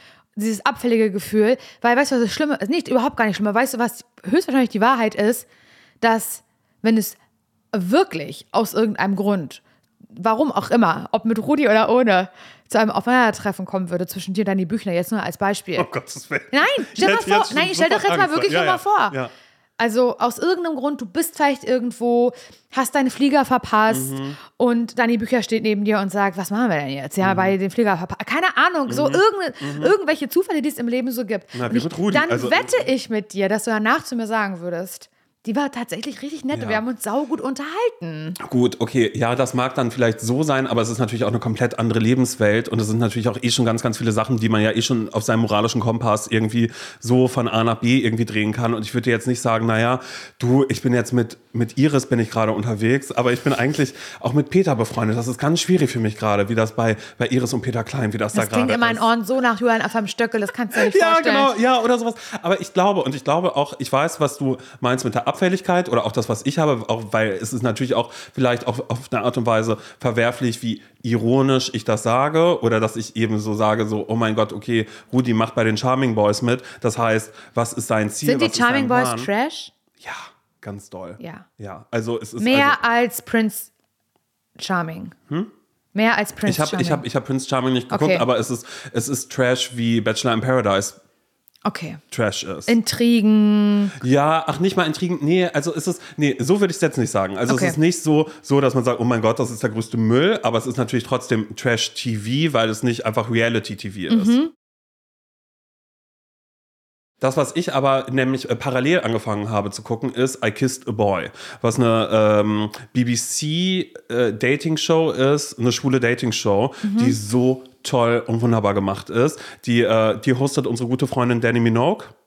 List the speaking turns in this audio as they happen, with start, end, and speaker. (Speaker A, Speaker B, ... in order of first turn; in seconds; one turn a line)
Speaker A: 0.4-5.5
Speaker A: 6.0-7.2
Speaker A: 7.7-15.9
Speaker B: 15.8-19.3
Speaker A: 16.5-19.1
Speaker A: 19.8-38.4
Speaker B: 23.9-24.4
Speaker B: 27.2-27.5
Speaker B: 28.9-29.9
Speaker B: 31.5-32.9
Speaker B: 36.5-36.8
Speaker B: 38.4-59.1
Speaker A: 58.3-61.5
Speaker B: 60.7-79.3
Speaker A: 78.2-79.7
Speaker B: 80.0-82.8
Speaker A: 81.2-81.5
Speaker A: 82.4-83.7
Speaker A: 84.6-85.2
Speaker A: 86.0-87.0
Speaker B: 86.5-91.0
Speaker A: 87.9-88.2
Speaker A: 91.7-92.0
Speaker B: 92.1-92.8
Speaker A: 92.7-94.0
Speaker B: 94.0-104.4
Speaker A: 97.5-97.8
Speaker A: 104.1-104.5
Speaker B: 107.2-122.1
Speaker A: 116.8-117.2